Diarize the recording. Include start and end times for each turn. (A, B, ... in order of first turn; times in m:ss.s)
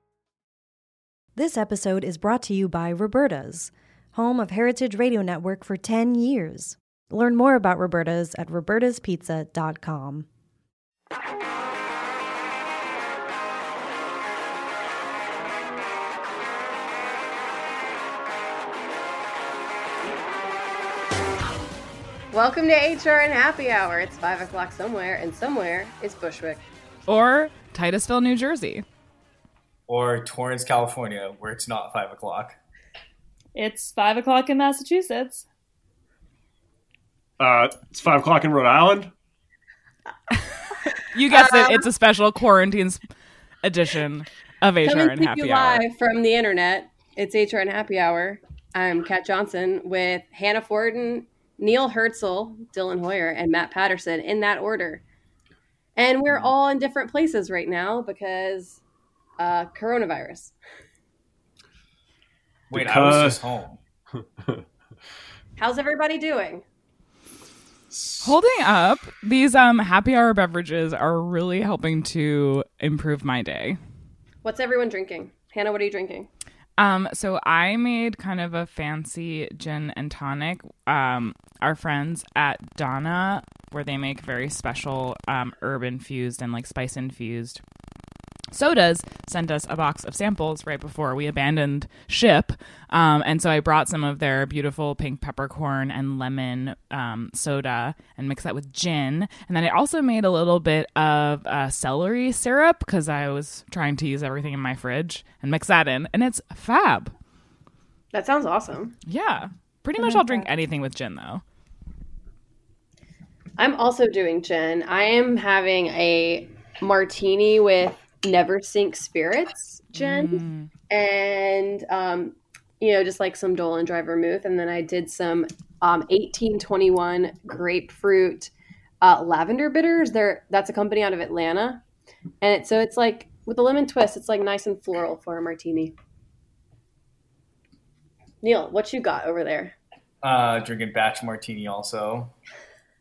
0:01.4-0:10.3 A
0:22.3-0:26.6 B
0:27.1-0:28.8 C
0:29.9-0:32.6 D
0:33.6-0:35.4 E
0:37.4-0:39.1 F
0:41.1-0:43.0 C
0:41.3-0:41.8 B
0:43.6-0:45.8 C
0:44.8-0:55.0 B
0:56.0-0:58.8 B
0:59.4-1:00.5 B
1:02.7-1:03.8 D
1:02.7-1:03.4 F
1:05.6-1:06.6 B
1:07.9-1:08.3 F
1:08.2-1:13.8 C
1:14.4-1:16.3 B
1:16.8-1:27.6 C
1:28.5-1:47.1 C
1:48.1-1:49.0 B
1:49.1-1:51.4 C
1:50.0-1:50.5 E
1:53.6-2:11.8 B
2:00.0-2:00.7 C
2:12.4-2:15.9 B
2:18.4-2:19.7 B
2:20.2-2:22.3 D